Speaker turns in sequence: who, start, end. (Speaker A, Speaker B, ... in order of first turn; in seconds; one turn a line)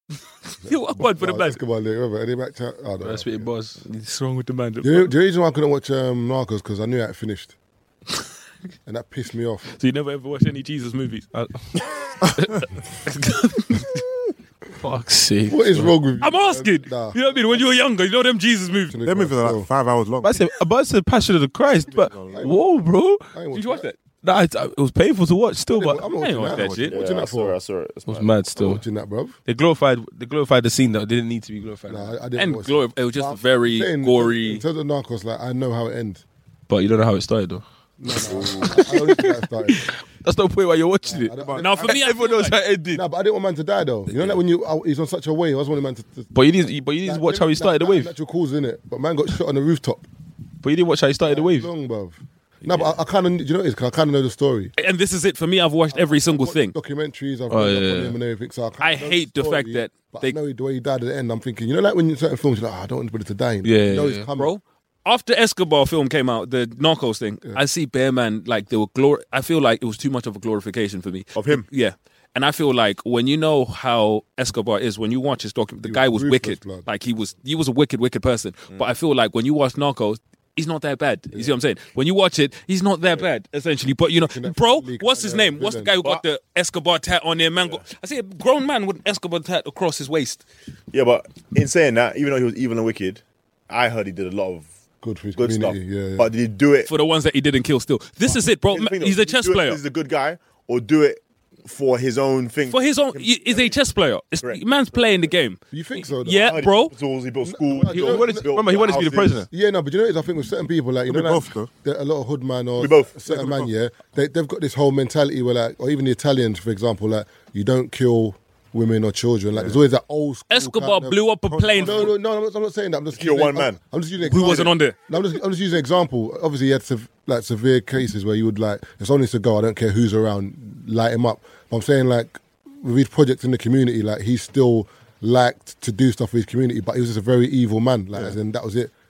Speaker A: 0.7-3.5
Speaker B: 0.7-1.6
Speaker C: 3.0-3.8
Speaker B: 3.9-5.1
Speaker A: 4.8-7.5
Speaker A: 8.9-9.7
Speaker B: 9.8-11.8
Speaker C: 11.3-11.8
Speaker D: 12.2-12.6
Speaker B: 13.1-14.0
Speaker C: 14.8-15.9
Speaker A: 15.5-17.6
Speaker B: 16.2-18.9
Speaker A: 18.9-19.7
Speaker D: 19.0-20.4
Speaker C: 20.2-23.2
Speaker D: 21.9-22.6
Speaker A: 22.3-22.7
Speaker A: 23.3-23.9
Speaker B: 23.5-24.0
Speaker C: 24.2-26.1
Speaker A: 25.7-27.6
Speaker B: 26.2-27.0
Speaker D: 26.5-26.9
Speaker E: 26.9-28.4
Speaker C: 28.1-28.8
Speaker A: 28.6-29.4
Speaker C: 29.5-32.1
Speaker A: 31.9-36.2
Speaker B: 32.4-34.6
Speaker C: 36.7-37.6
Speaker A: 38.0-39.9
Speaker C: 38.2-43.0
Speaker A: 41.0-41.9
Speaker D: 41.4-41.8
Speaker B: 41.6-42.6
Speaker A: 42.9-46.3
Speaker C: 44.1-44.4
Speaker C: 46.3-48.1
Speaker A: 47.0-50.1
Speaker C: 50.6-51.7
Speaker A: 51.3-54.7
Speaker B: 52.6-53.0
Speaker B: 54.8-56.8
Speaker A: 55.9-64.5
Speaker C: 57.5-58.2
Speaker B: 58.8-60.4
Speaker C: 63.6-64.3
Speaker B: 64.4-90.5
Speaker E: 71.3-71.7
Speaker A: 75.8-76.9
Speaker A: 84.2-85.9
Speaker E: 90.9-94.7
Speaker A: 95.0-96.3
Speaker E: 95.4-96.9
Speaker B: 96.9-99.8
Speaker E: 98.3-103.8
Speaker B: 102.7-106.9
Speaker A: 105.7-106.7
Speaker E: 106.4-109.5
Speaker A: 107.5-108.6
Speaker C: 107.9-109.5
Speaker A: 109.5-121.2
Speaker D: 111.1-111.7
Speaker E: 112.8-113.7
Speaker D: 113.4-113.7
Speaker B: 120.5-122.1
Speaker D: 121.5-121.9
Speaker A: 121.8-138.9
Speaker E: 123.1-123.8
Speaker B: 124.2-125.0